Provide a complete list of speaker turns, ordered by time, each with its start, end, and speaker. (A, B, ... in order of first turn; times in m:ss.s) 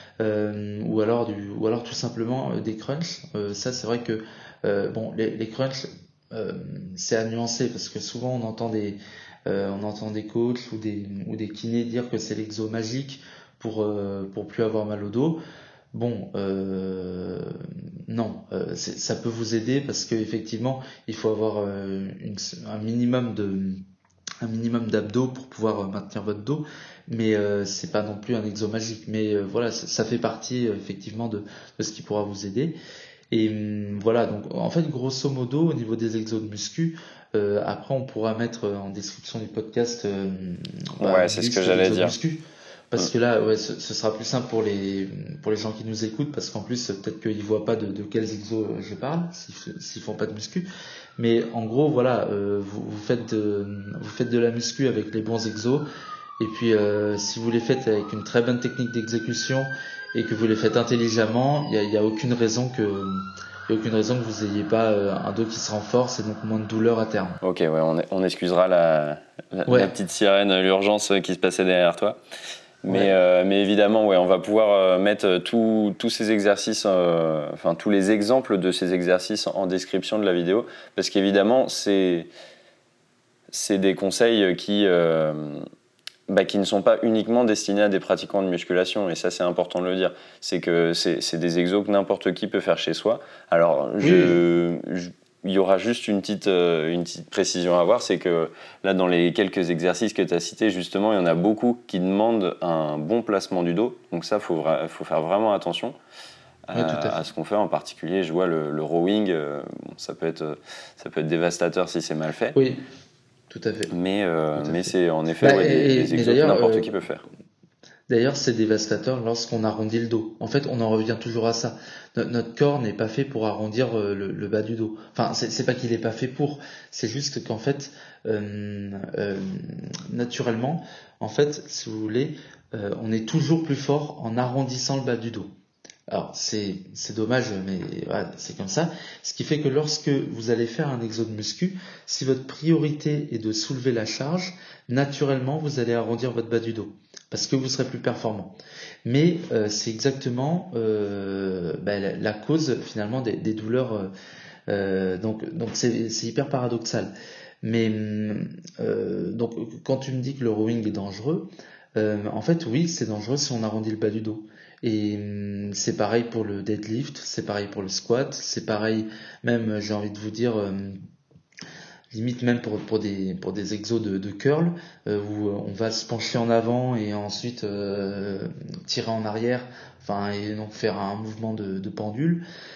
0:00.2-0:15.4 A
0:15.9-0:23.8 A
0:24.4-0:32.7 A
0:33.3-0:50.6 A
0:41.0-0:42.1 B
0:51.2-0:55.9 A
0:56.4-1:07.4 A
1:07.4-1:12.2 B
1:12.8-1:22.3 B
1:23.5-1:25.6 B
1:26.3-1:46.0 B
1:34.0-1:34.4 A
1:46.7-1:52.6 B
1:46.7-1:47.2 A
1:52.5-1:52.8 A
1:53.5-1:53.9 A
1:53.9-1:57.2 B
1:54.6-1:56.9 A
1:58.1-2:15.5 A
2:16.1-2:34.1 A
2:34.7-2:37.1 A
2:37.6-2:51.0 A
2:52.1-3:02.4 A